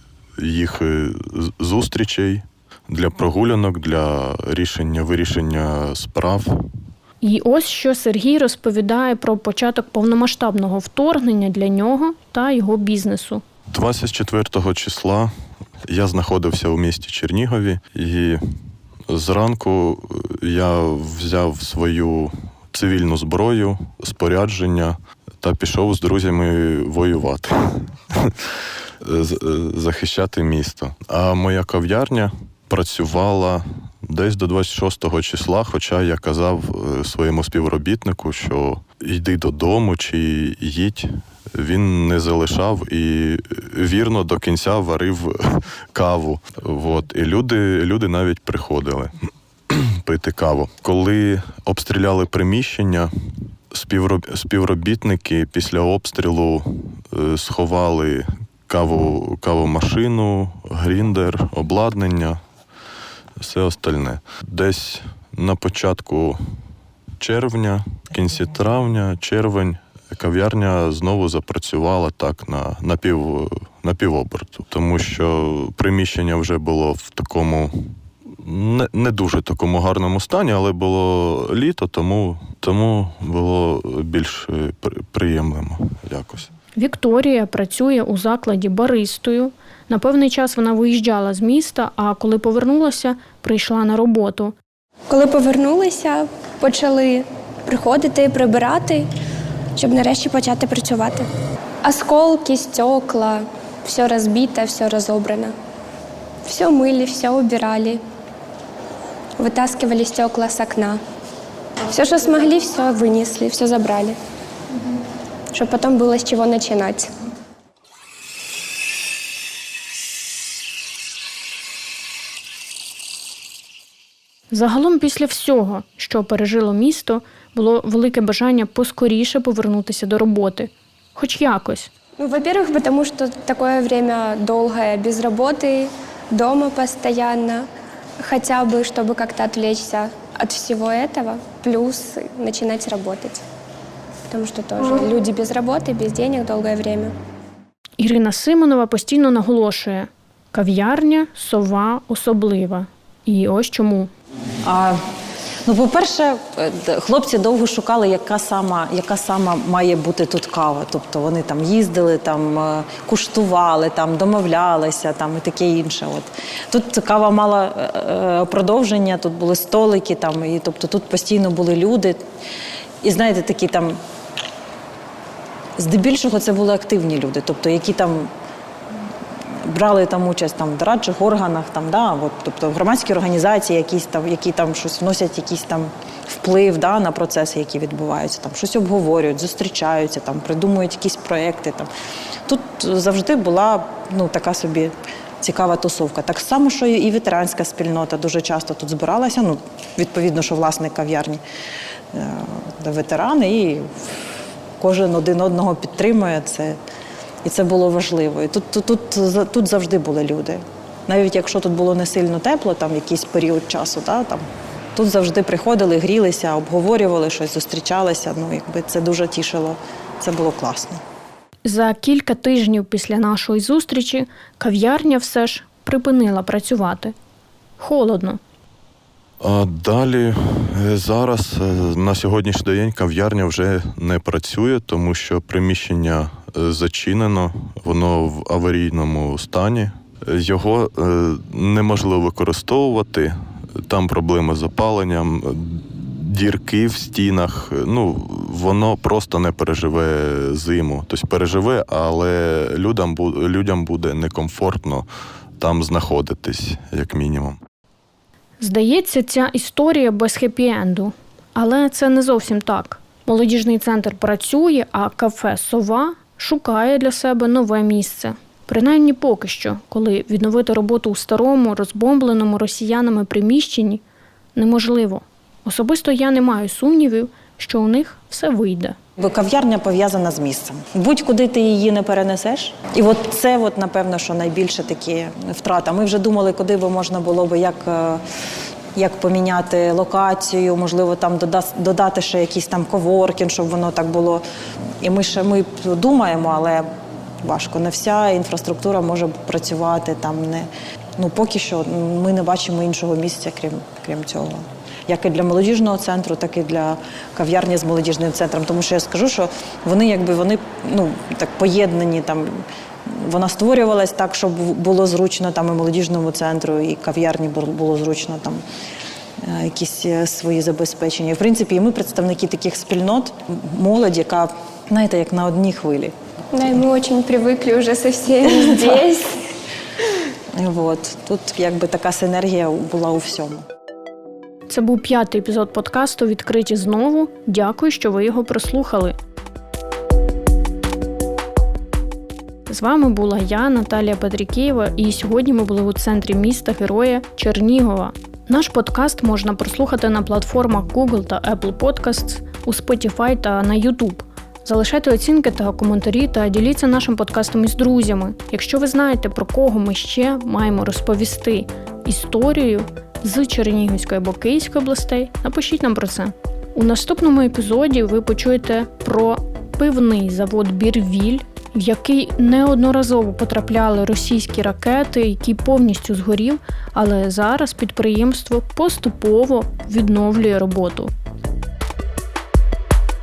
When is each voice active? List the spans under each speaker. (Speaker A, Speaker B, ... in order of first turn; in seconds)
Speaker A: 0.4-6.7, 13.7-15.3, 15.9-18.4, 19.1-62.4, 63.4-66.4, 67.2-86.5, 229.4-255.1, 255.6-257.6
Speaker B: 7.2-13.4, 86.8-94.5, 124.5-131.9, 148.0-154.1, 221.7-227.2, 227.8-228.4, 258.6-274.0, 274.6-279.0, 334.7-339.2, 342.7-381.1
Speaker C: 95.1-99.1, 99.8-101.3, 101.8-105.5, 106.4-108.0, 109.4-111.0, 111.9-114.2, 115.5-117.1, 132.2-137.7, 138.2-143.4, 144.3-147.1, 326.5-329.4
Speaker D: 154.6-155.0, 155.7-172.2, 173.0-174.0, 175.8-178.3, 179.6-191.9, 192.5-201.4, 202.1-206.8, 207.4-214.4, 214.9-221.0, 279.2-288.2, 289.0-294.4, 295.0-296.9, 297.4-318.6, 319.4-326.1, 328.5-329.0, 330.5-333.7